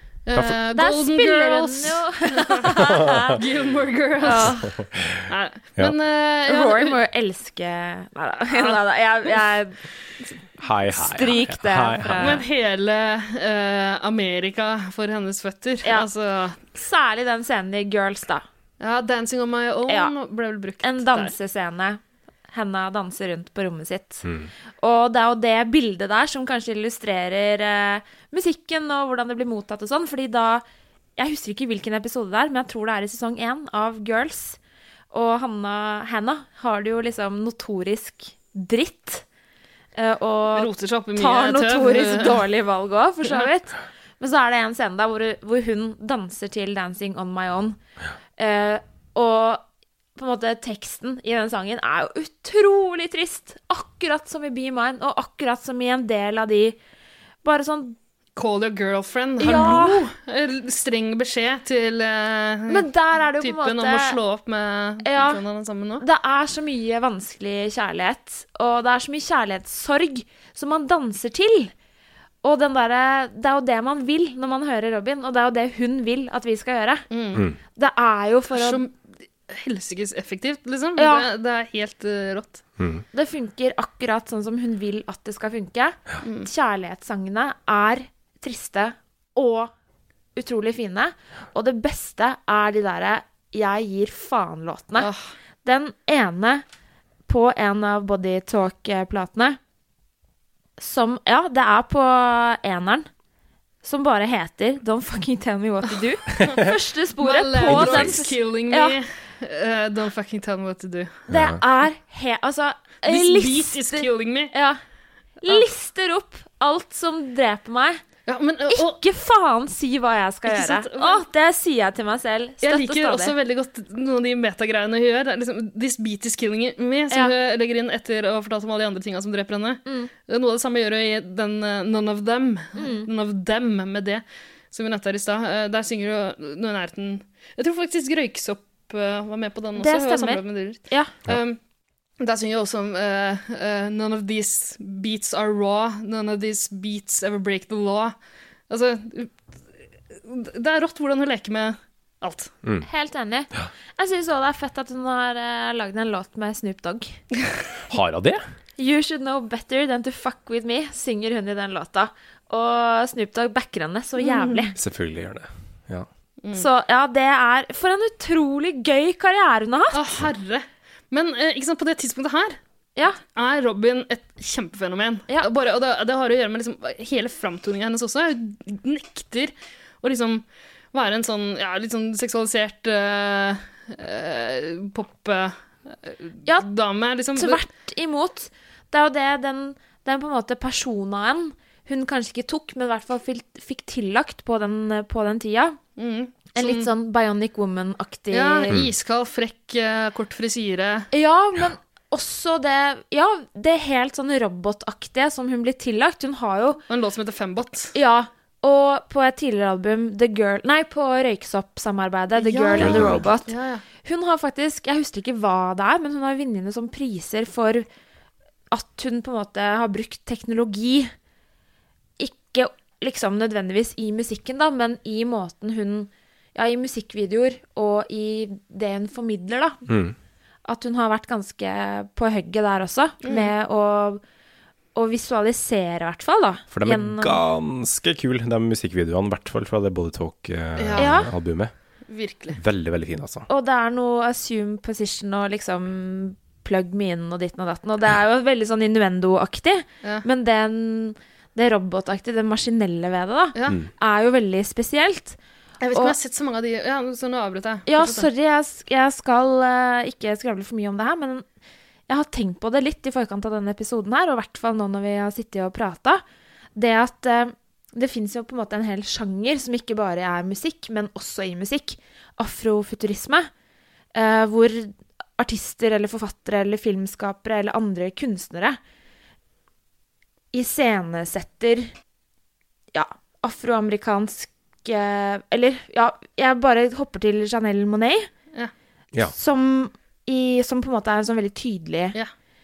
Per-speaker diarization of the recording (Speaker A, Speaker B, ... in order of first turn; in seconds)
Speaker A: 0.3-4.6, 5.3-7.0, 8.5-8.8, 12.2-16.6, 18.8-21.3, 40.5-42.4, 58.4-66.0, 77.1-77.4, 78.5-82.6, 86.2-86.5, 95.0-95.3, 106.3-106.6, 107.2-111.3, 113.0-114.5, 118.3-119.0, 120.5-121.2, 122.6-141.6, 142.2-148.2, 148.7-149.4, 150.1-152.5, 164.2-164.7, 169.9-172.6, 173.3-187.6, 196.0-196.9, 198.3-201.1, 206.9-207.9, 212.4-213.8, 233.2-233.5, 240.8-241.2, 242.1-242.6, 255.8-258.3
Speaker B: 0.7-3.4, 4.2-4.7, 6.5-9.8, 10.9-12.4, 16.7-18.4, 20.8-22.0, 22.5-24.2, 24.8-30.6, 31.2-34.6, 35.1-39.2, 40.0-47.8, 48.4-49.6, 50.2-56.8, 57.4-58.0, 59.4-60.1, 62.7-64.2, 65.0-65.4, 66.0-71.7, 72.4-77.1, 77.8-78.8, 81.0-81.3, 83.1-89.7, 90.4-95.1, 95.6-96.7, 97.3-99.6, 100.8-103.1, 103.8-109.0, 111.3-114.8, 115.4-118.0, 118.7-123.3, 129.8-130.1, 132.8-133.1, 139.8-141.1, 152.8-157.2, 158.8-164.8, 166.5-170.0, 187.3-195.8, 196.6-198.8, 201.1-206.8, 207.9-213.5, 214.0-217.9, 218.7-221.1, 222.2-229.8, 230.7-234.2, 234.9-237.4, 241.0-241.3, 243.5-255.4, 257.9-261.4, 262.1-266.2, 266.8-273.5, 274.1-278.8, 280.5-281.9, 282.9-288.3, 289.3-292.2
Speaker C: 2.9-3.3, 4.8-5.2, 10.6-12.4, 82.8-83.0, 107.6-108.3, 111.3-111.6, 157.9-158.4, 164.8-166.1, 212.8-213.3, 229.9-230.2, 236.7-241.7, 242.5-243.5